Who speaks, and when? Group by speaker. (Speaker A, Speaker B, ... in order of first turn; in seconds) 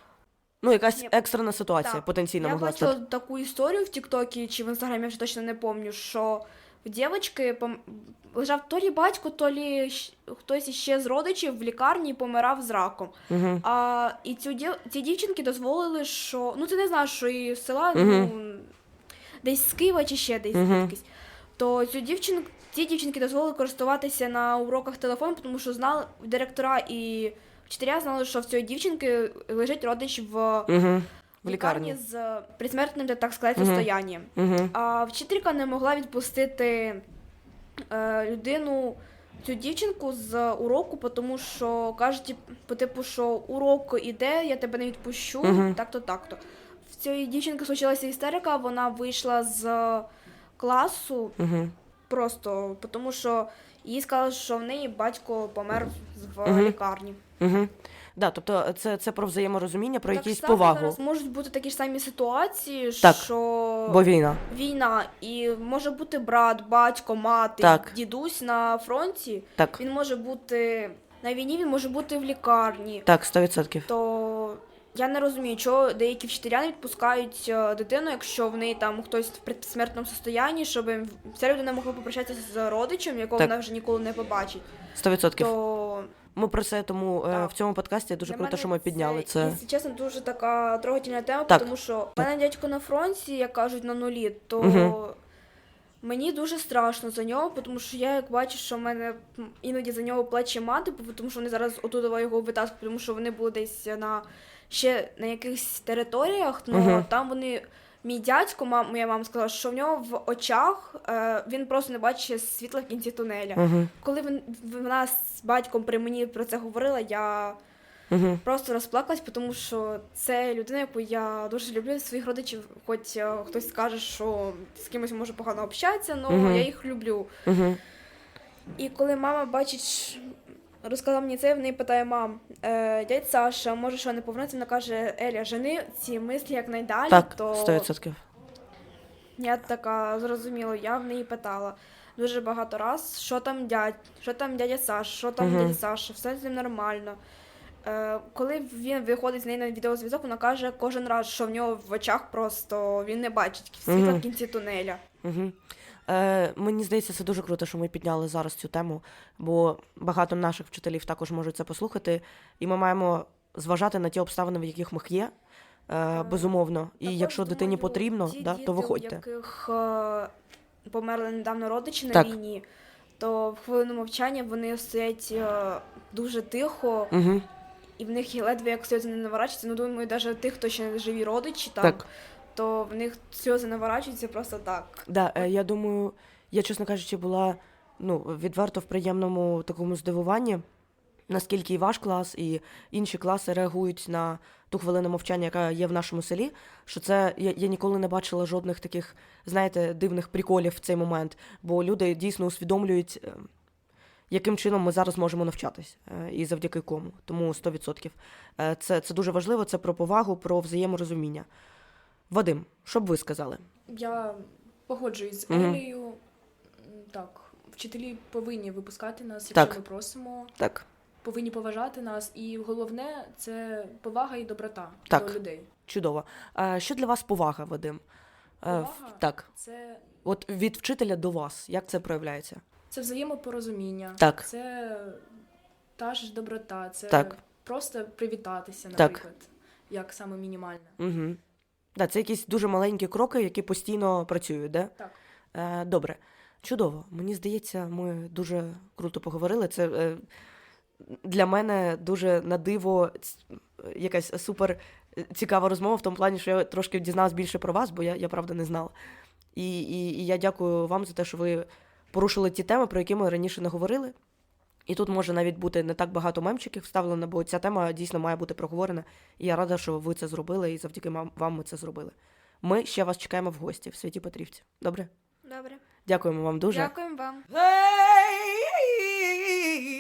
Speaker A: 0.6-3.0, 13.3-13.6, 17.9-18.3, 20.5-20.9, 30.7-32.0, 33.6-34.7, 45.4-45.8, 51.4-51.7, 56.5-56.8, 57.4-61.0, 63.0-63.3, 63.9-64.4, 67.6-67.9, 73.1-73.9, 85.0-85.5, 86.4-89.6, 91.5-92.3, 94.6-95.0, 106.7-107.1, 113.6-113.9, 118.1-118.4, 126.3-126.7, 127.5-127.8, 137.1-138.2, 145.4-145.8, 153.9-154.2, 155.2-155.6, 156.1-165.3, 165.9-169.2, 177.1-177.4, 185.1-190.6, 191.3-203.5, 204.3-211.5, 212.3-213.6, 215.5-215.8, 219.5-219.8, 220.6-220.8, 225.1-225.4, 225.9-228.0, 228.6-229.5, 230.2-232.6, 234.2-234.4, 237.1-237.4, 241.0-241.4, 242.0-244.9, 245.5-250.2, 251.0-258.9, 259.6-264.1, 264.9-275.1, 276.1-276.9, 277.6-279.2
Speaker B: 0.9-1.2, 1.8-18.7, 19.4-21.1, 21.6-30.7, 31.4-37.0, 37.9-50.1, 50.6-51.4, 52.1-57.2, 60.1-73.1, 73.9-84.7, 85.4-86.1, 88.2-95.2, 96.0-117.6, 118.4-127.3, 128.8-137.9, 139.4-147.2, 147.8-155.0, 166.1-170.3, 170.9-172.7, 173.2-177.1, 178.0-182.0, 182.6-185.5, 275.4-275.8, 276.7-277.4
Speaker C: 213.9-216.2, 216.8-220.5, 221.2-225.7, 228.7-230.0, 232.9-235.3, 236.0-240.9